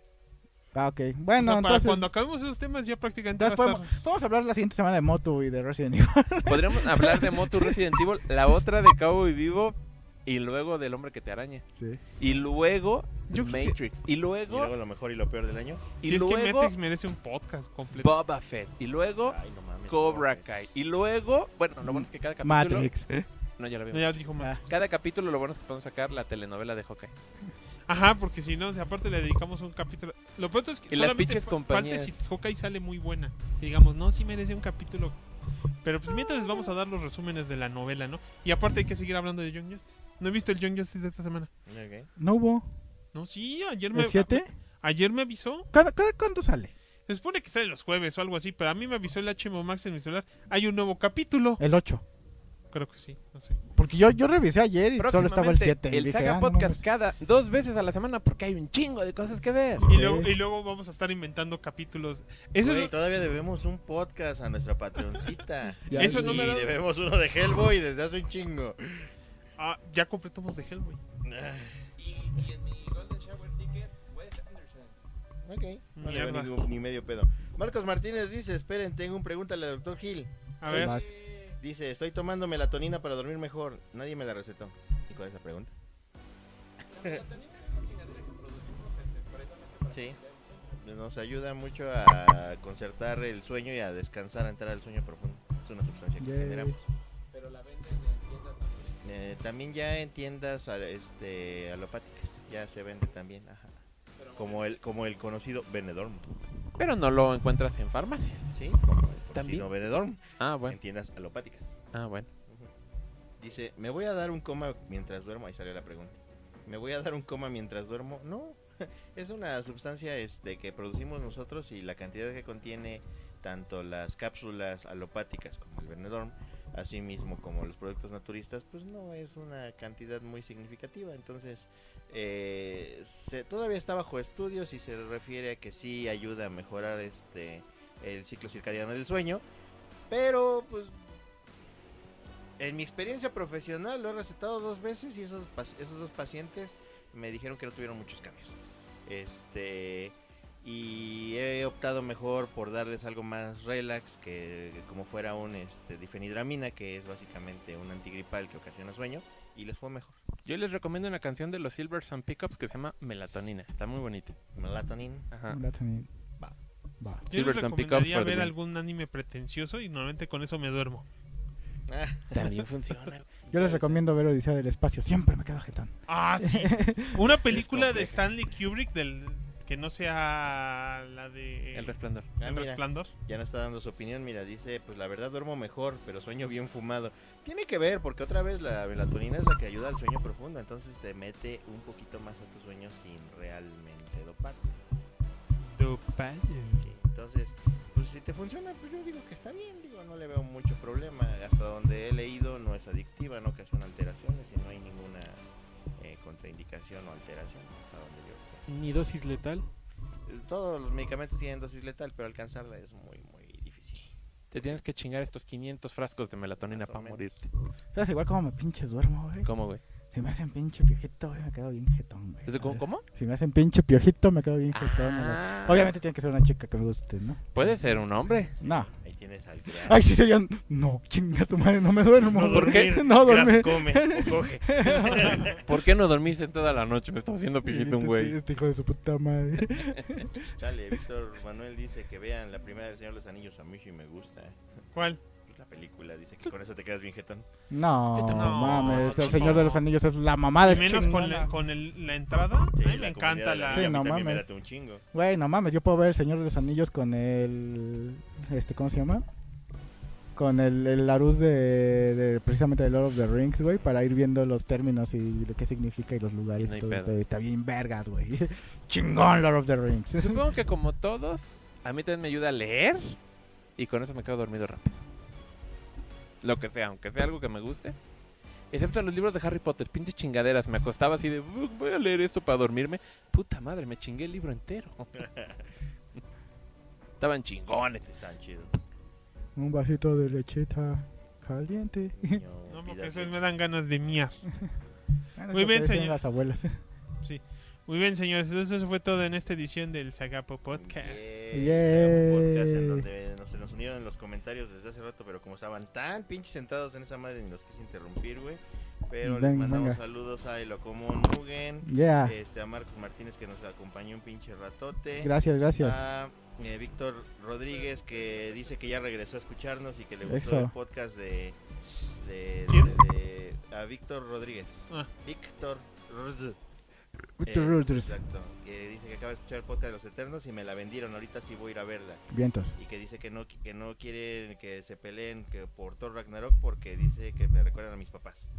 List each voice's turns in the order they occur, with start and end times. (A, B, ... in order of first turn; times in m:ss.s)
0:00.7-0:02.1 A
0:01.4-0:03.8 B
0:03.4-0:08.0 A
0:06.4-0:11.6 C
0:11.7-0:12.0 A
0:12.2-0:14.7 C
0:13.3-0:13.8 B
0:14.5-0:15.9 D
0:16.0-0:16.7 C
0:16.0-0:18.2 B
0:18.0-0:22.9 C
0:19.2-0:20.6 D
0:21.8-0:23.3 A
0:23.6-0:27.1 C
0:23.9-0:24.7 B
0:27.9-0:35.2 B
0:30.9-0:32.1 C
0:35.8-0:41.5 B
0:41.7-0:42.1 D
0:42.2-0:42.7 A
0:43.1-0:45.7 B
0:43.9-0:44.5 A
0:45.7-0:46.7 A
0:47.1-0:51.6 B
0:51.6-0:52.0 A
0:52.7-0:53.6 B
0:53.7-0:56.8 A
0:55.0-0:59.8 C
0:59.8-1:00.3 A
0:59.9-1:02.9 B
1:02.6-1:09.1 D
1:05.8-1:06.6 A
1:05.9-1:06.8 B
1:09.6-1:11.0 B
1:11.2-1:11.7 D
1:12.0-1:15.0 C
1:15.4-1:20.8 D
1:16.0-1:16.6 B
1:20.6-1:20.9 B
1:20.7-1:21.1 A
1:20.8-1:21.6 C
1:21.6-1:25.7 D
1:26.9-1:30.8 C
1:29.9-1:30.2 D
1:30.8-1:36.8 D
1:36.2-1:36.7 A
1:37.3-1:39.1 C
1:39.0-1:43.8 D
1:44.2-1:44.8 C
1:44.4-1:46.3 D
1:46.8-1:48.5 C
1:48.6-1:51.8 D
1:49.3-1:49.7 C
1:50.4-1:50.8 C
1:51.9-1:52.3 C
1:53.4-2:19.4 D
2:20.1-2:21.0 D
2:22.6-2:28.6 D
2:29.0-2:40.2 D
2:40.4-2:44.4 C
2:44.6-2:45.3 D
2:45.3-2:45.6 C
2:45.5-2:46.1 A
2:47.3-2:48.5 C
2:47.3-2:51.0 B
2:51.9-2:54.0 D
2:52.3-2:53.3 C
2:53.5-2:57.3 A
2:56.1-3:03.1 B
2:57.3-2:58.2 D
3:01.7-3:02.3 C
3:02.4-3:14.8 D
3:15.6-3:16.9 B
3:16.8-3:25.4 D
3:26.0-3:28.6 D
3:28.7-3:29.6 C
3:30.3-3:34.8 D
3:34.5-3:37.5 C
3:36.7-3:37.3 D
3:37.9-3:39.5 A
3:39.4-3:39.8 C
3:40.1-3:47.9 A
3:42.4-3:43.0 C
3:44.7-3:46.0 C
3:47.5-3:48.5 C
3:48.6-3:48.9 A
3:48.7-3:50.0 D
3:49.7-3:55.5 A
3:52.2-3:55.6 D
3:52.5-3:52.8 C
3:55.5-3:58.4 C
3:57.6-4:00.4 A
4:00.4-4:04.6 D
4:04.9-4:05.2 B
4:05.5-4:07.4 D
4:07.7-4:11.5 A
4:08.2-4:09.7 C
4:08.2-4:09.8 B
4:10.6-4:13.9 B
4:12.8-4:15.0 D
4:13.7-4:14.4 A
4:15.1-4:19.2 A
4:20.3-4:30.5 A
4:26.6-4:27.2 C
4:30.2-4:33.2 C
4:33.8-4:35.0 C
4:36.4-4:38.0 C
4:38.7-4:45.2 C
4:45.1-4:45.6 D
4:47.2-4:48.1 C
4:48.1-4:48.7 D
4:49.6-4:52.4 A
4:52.1-4:53.4 D
4:52.7-4:54.4 B
4:55.4-4:56.8 A
4:55.5-4:56.2 B
4:57.2-5:01.3 B
5:00.7-5:21.6 D
5:01.5-5:03.0 A
5:09.2-5:10.0 A
5:11.8-5:12.4 A
5:15.2-5:16.0 A
5:20.2-5:20.7 A
5:22.2-5:26.6 D
5:22.7-5:23.0 B
5:27.4-5:28.2 A
5:27.4-5:32.2 D
5:32.3-5:32.8 A
5:32.8-5:38.5 D